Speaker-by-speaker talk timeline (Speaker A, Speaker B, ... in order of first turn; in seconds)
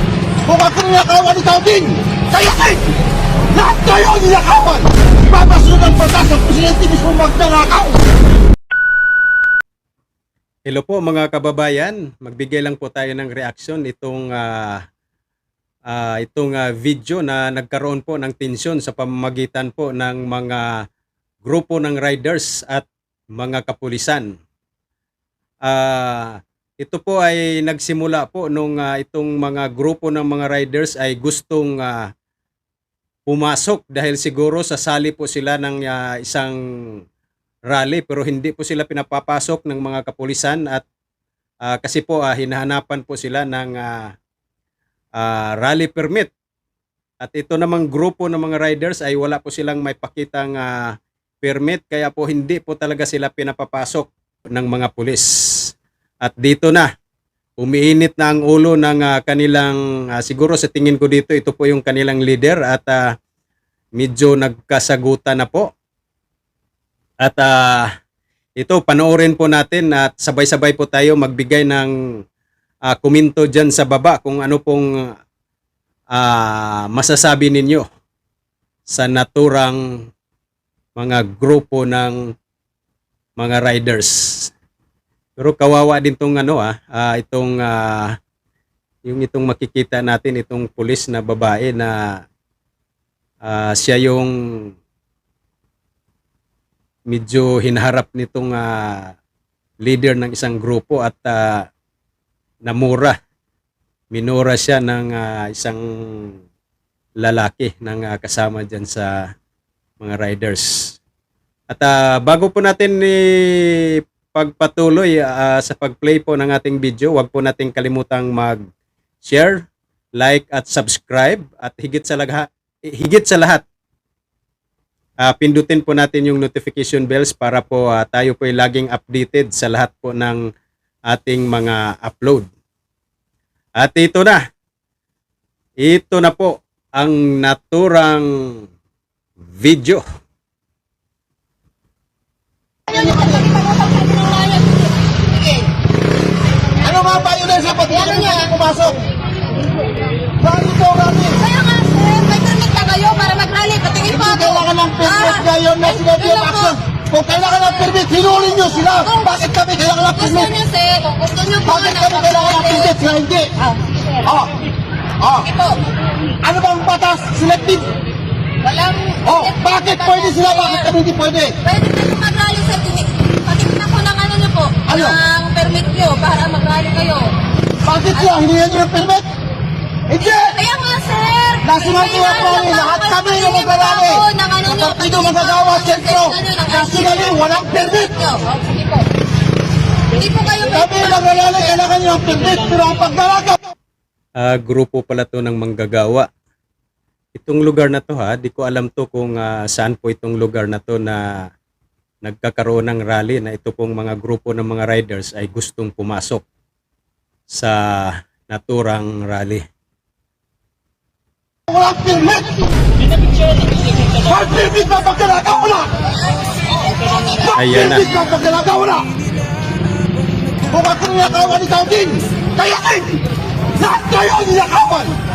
Speaker A: 0.5-2.9, 3.5-8.0, 142.9-143.4, 146.8-149.0, 150.4-151.4, 154.1-160.5, 161.7-163.5, 164.2-164.5, 165.2-165.5, 166.4-167.9, 169.2-171.6, 174.9-175.2, 177.8-179.3, 180.1-180.6, 181.6-188.2, 190.6-193.6, 211.7-212.7, 214.2-215.9, 217.3-219.1, 220.7-223.2, 223.8-225.1
Speaker B: 10.7-14.8, 15.9-20.9, 21.4-24.4, 25.6-32.1, 33.3-37.0, 37.7-40.9, 41.6-44.1, 45.2-46.3, 47.2-56.9, 57.6-63.0, 64.0-65.7, 67.2-67.9, 68.6-72.2, 72.9-75.1, 76.1-77.9, 78.9-79.8, 81.0-82.2, 83.4-84.5, 85.4-88.2, 89.1-92.3, 93.4-94.7, 97.1-99.2, 99.8-101.7, 102.7-103.2, 104.1-106.4, 107.2-109.3, 110.0-111.0, 111.7-118.6, 119.2-119.7, 120.2-123.7, 125.2-130.5, 131.1-132.5, 133.8-134.4, 135.8-138.7, 139.4-140.0, 194.4-196.3, 197.3-201.5, 202.2-206.4, 207.5-209.6, 217.5-218.1
Speaker C: 142.9-145.7, 147.8-148.5, 151.4-156.8, 157.3-159.4, 160.0-163.0, 163.6-163.9, 165.4-165.9, 168.6-170.9, 171.6-177.4, 178.1-178.5, 180.1-189.1, 190.1-191.8, 216.7-217.3